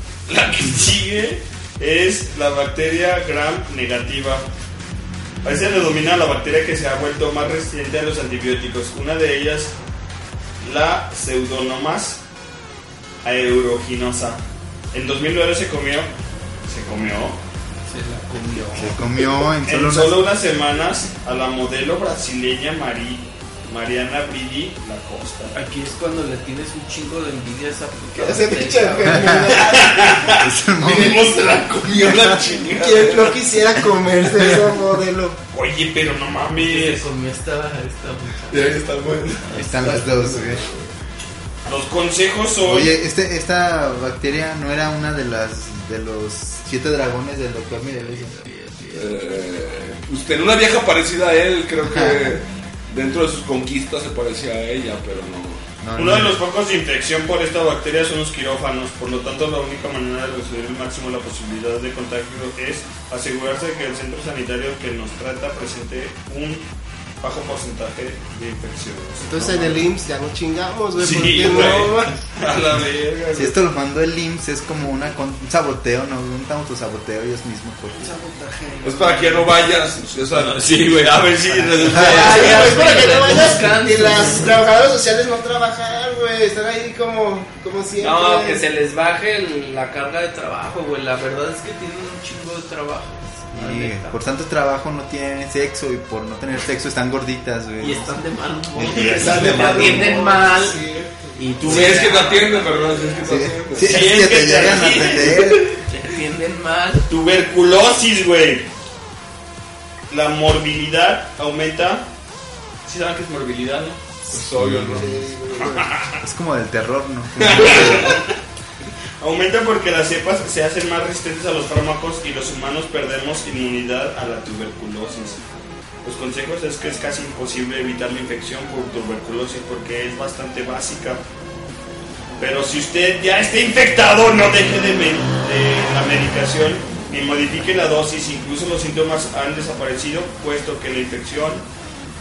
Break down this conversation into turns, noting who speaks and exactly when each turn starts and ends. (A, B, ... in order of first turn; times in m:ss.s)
0:00.3-0:04.5 A
0:05.4-0:09.7 A
0:10.6-0:12.2 A
0:13.2-0:14.4 A
0:14.9-0:16.1 A
0:16.7-0:17.4 A
0:17.9-0:19.0 B
0:18.7-0:20.2 C
0:19.6-0:25.5 A
0:25.5-0:29.5 B
0:28.2-0:30.3 D
0:29.1-0:29.6 C
0:29.7-0:30.5 A
0:30.3-0:31.3 C
0:30.8-0:33.4 E
0:30.9-0:31.4 D
0:32.1-0:32.4 C
0:32.5-0:35.4 D
0:34.4-0:34.6 C
0:35.5-0:37.1 A
0:36.6-0:38.9 B
0:38.5-0:40.8 E
0:39.5-0:40.6 C
0:39.6-0:40.1 B
0:41.6-0:42.9 A
0:42.6-0:48.3 C
0:48.0-0:49.4 B
0:48.9-0:55.6 E
0:51.9-0:52.3 C
0:55.8-0:56.4 C
0:56.0-1:06.6 A
1:07.2-1:09.8 A
1:09.2-1:12.2 D
1:11.0-1:13.6 A
1:13.3-1:18.1 C
1:18.3-1:19.4 B
1:18.8-1:20.9 E
1:20.4-1:23.0 A
1:21.5-1:22.2 C
1:21.9-1:24.5 B
1:22.0-1:28.6 D
1:28.0-1:34.1 B
1:33.5-1:38.2 C
1:37.8-1:40.8 B
1:38.7-1:40.3 C
1:38.9-1:41.8 D
1:41.4-1:43.3 B
1:41.6-1:44.0 E
1:43.2-1:45.8 C
1:43.8-1:45.5 A
1:45.7-1:47.0 B
1:47.1-1:48.7 A
1:50.1-1:52.1 A
1:52.8-1:54.1 A
1:54.3-1:55.2 E
1:54.6-1:55.2 C
1:54.9-1:55.8 D
1:55.6-1:56.2 A
1:56.2-1:58.2 C
1:57.5-1:58.3 A
1:59.2-2:05.4 A
2:06.0-2:11.2 A
2:12.4-2:21.6 A